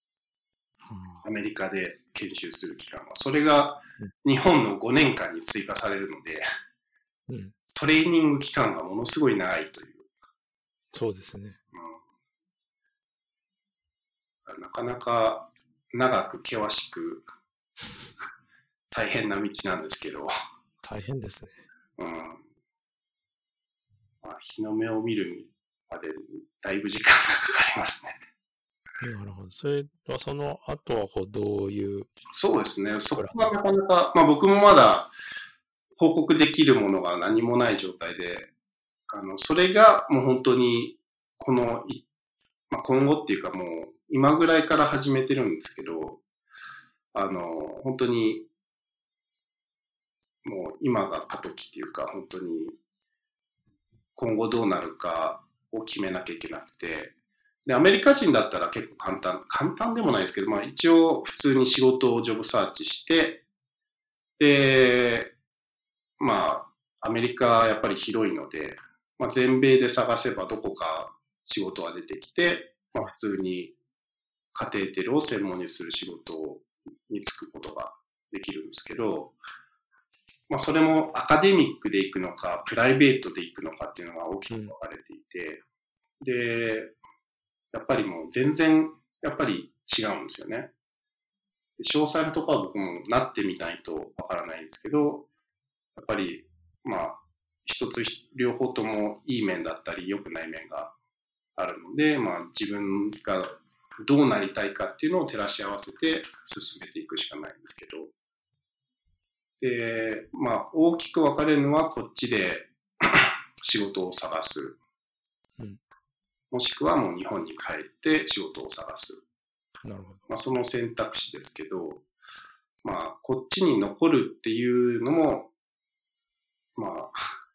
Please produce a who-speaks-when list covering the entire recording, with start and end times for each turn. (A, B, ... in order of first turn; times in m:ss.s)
0:00.8-0:01.3 A
0:01.2-0:06.4 B
0:07.3-0:07.5 A
0:07.7-0:10.1 B
0:10.9-0:11.6 A
0:11.7-0:12.0 B
0:14.5-0:17.2 B
0:18.9-0:20.3 B
0:20.8-0:21.7 A
0:22.0-0:22.4 B
0:24.2-0:28.2 B
0:29.0-0:32.1 A
0:32.3-0:35.1 B
0:33.2-0:33.6 A
0:36.0-0:38.5 B
0:39.1-0:42.0 B
0:42.7-0:46.2 B
0:47.1-0:48.5 B
0:50.4-0:52.8 B
0:54.2-0:57.1 B
0:57.7-1:03.4 B
1:04.4-1:05.3 B
1:06.2-1:13.8 B
1:14.5-1:19.4 B
1:20.5-1:25.6 B
1:24.5-1:24.8 A
1:26.2-1:26.9 B
1:27.7-1:30.7 B
1:31.8-1:35.3 B
1:36.0-1:41.0 B
1:41.6-1:43.5 B
1:44.0-1:48.1 B
1:49.6-1:54.8 B
1:56.5-1:59.2 B
1:59.8-2:00.2 A
2:00.3-2:02.0 B
2:02.8-2:05.5 B
2:06.8-2:07.4 B